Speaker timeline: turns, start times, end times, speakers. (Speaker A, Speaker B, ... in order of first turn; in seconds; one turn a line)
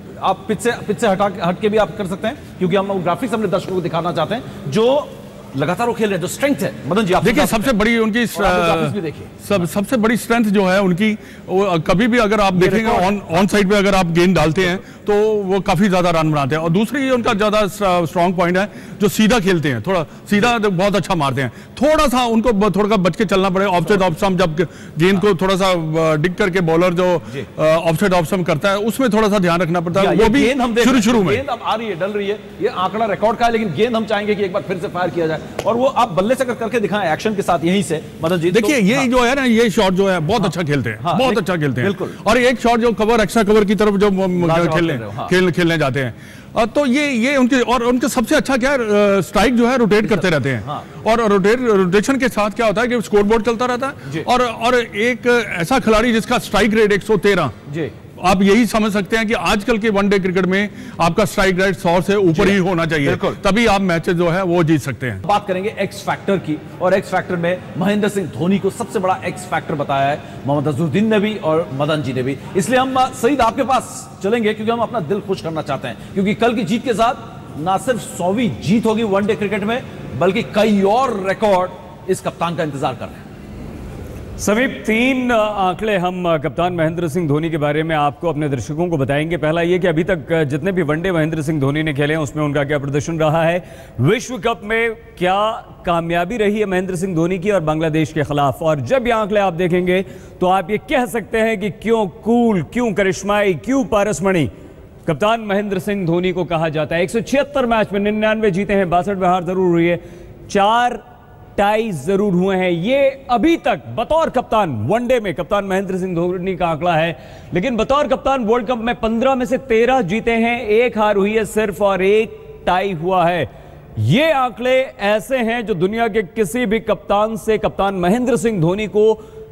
Speaker A: 0.2-7.7
Speaker B: 7.2-31.4
Speaker A: 8.3-9.6
Speaker A: 12.5-13.5
Speaker A: 29.9-39.1
Speaker B: 38.5-57.5
Speaker A: 40.4-42.2
Speaker A: 44.3-45.3
Speaker A: 50.0-50.9
Speaker A: 57.7-57.9
Speaker B: 58.2-65.2
Speaker A: 62.3-63.4
Speaker A: 65.2-83.2
Speaker C: 84.4-104.5
Speaker C: 105.0-111.0
Speaker C: 111.6-129.2